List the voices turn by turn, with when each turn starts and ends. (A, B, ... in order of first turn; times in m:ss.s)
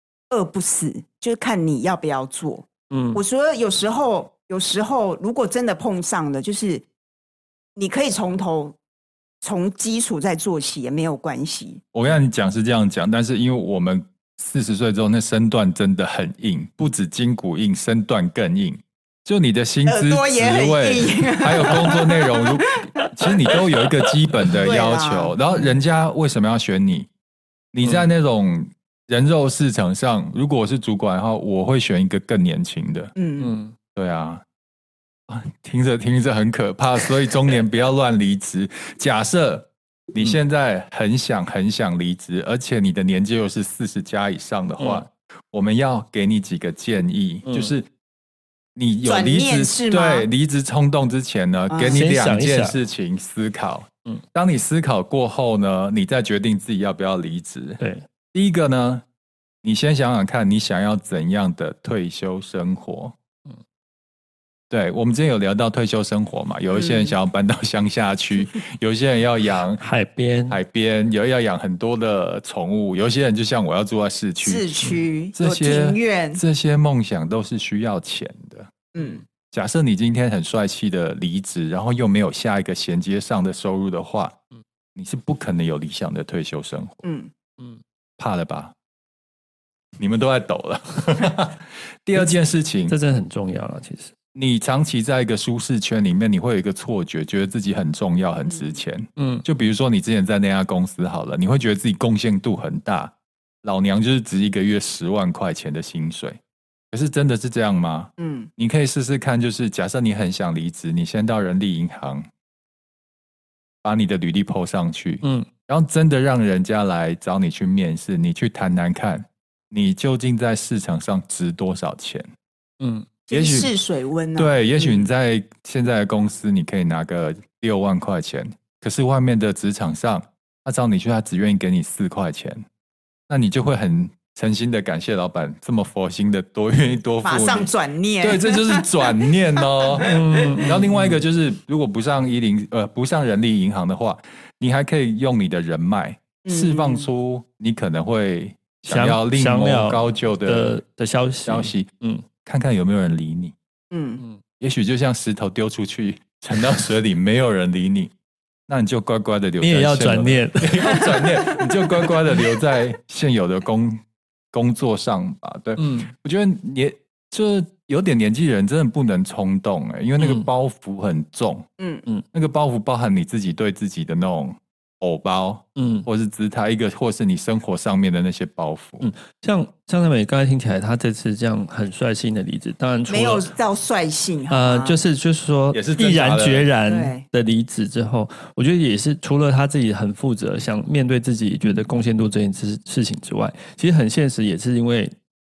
0:00.3-0:06.9 A
0:02.9-0:03.2 B
0:07.8-0:08.8 A
0:09.4-0:11.8 A
0:11.9-0:27.1 C
0:19.9-0:22.9 A
0:24.5-0:25.6 A
0:27.7-0:33.1 C
0:33.2-0:33.6 A
0:33.4-0:33.8 B
0:34.0-0:34.4 C
0:35.3-0:47.9 C
0:44.8-0:45.0 B
0:47.4-0:47.7 B
0:48.8-0:57.8 C
0:49.0-0:50.3 A
0:51.7-0:52.0 A
0:51.9-0:52.8 B
0:58.3-0:59.0 C
0:59.6-1:03.2 C
1:04.7-1:09.8 C
1:06.7-1:07.1 A
1:09.8-1:10.6 B
1:10.5-1:18.7 C
1:14.4-1:16.4 A
1:18.9-1:19.2 A
1:19.5-1:24.4 C
1:25.0-1:27.0 C
1:27.0-1:27.3 A
1:28.2-1:28.7 C
1:30.0-1:33.0 C
1:32.2-1:34.1 B
1:34.4-1:46.4 C
1:38.5-1:38.7 A
1:39.2-1:39.4 B
1:46.9-1:52.3 C
1:48.2-1:48.5 A
1:53.8-2:02.3 C
1:55.2-1:55.5 B
2:02.8-2:03.1 B
2:03.3-2:05.0 A
2:03.3-2:03.7 C
2:04.4-2:12.6 C
2:13.3-2:30.8 C
2:17.2-2:20.1 A
2:20.0-2:21.2 B
2:26.4-2:27.1 A
2:28.9-2:32.2 B
2:31.5-2:31.9 C
2:32.4-2:33.6 C
2:33.9-2:34.2 A
2:34.6-2:38.1 C
2:38.7-2:44.0 C
2:39.6-2:41.1 B
2:44.5-2:51.7 C
2:45.8-2:46.1 B
2:50.2-2:50.5 B
2:51.8-2:52.0 A
2:52.3-2:59.1 C
2:55.8-2:56.1 B
2:59.0-3:03.5 B
3:03.1-3:05.0 A
3:04.5-3:15.2 B
3:05.7-3:06.7 C
3:06.9-3:07.2 A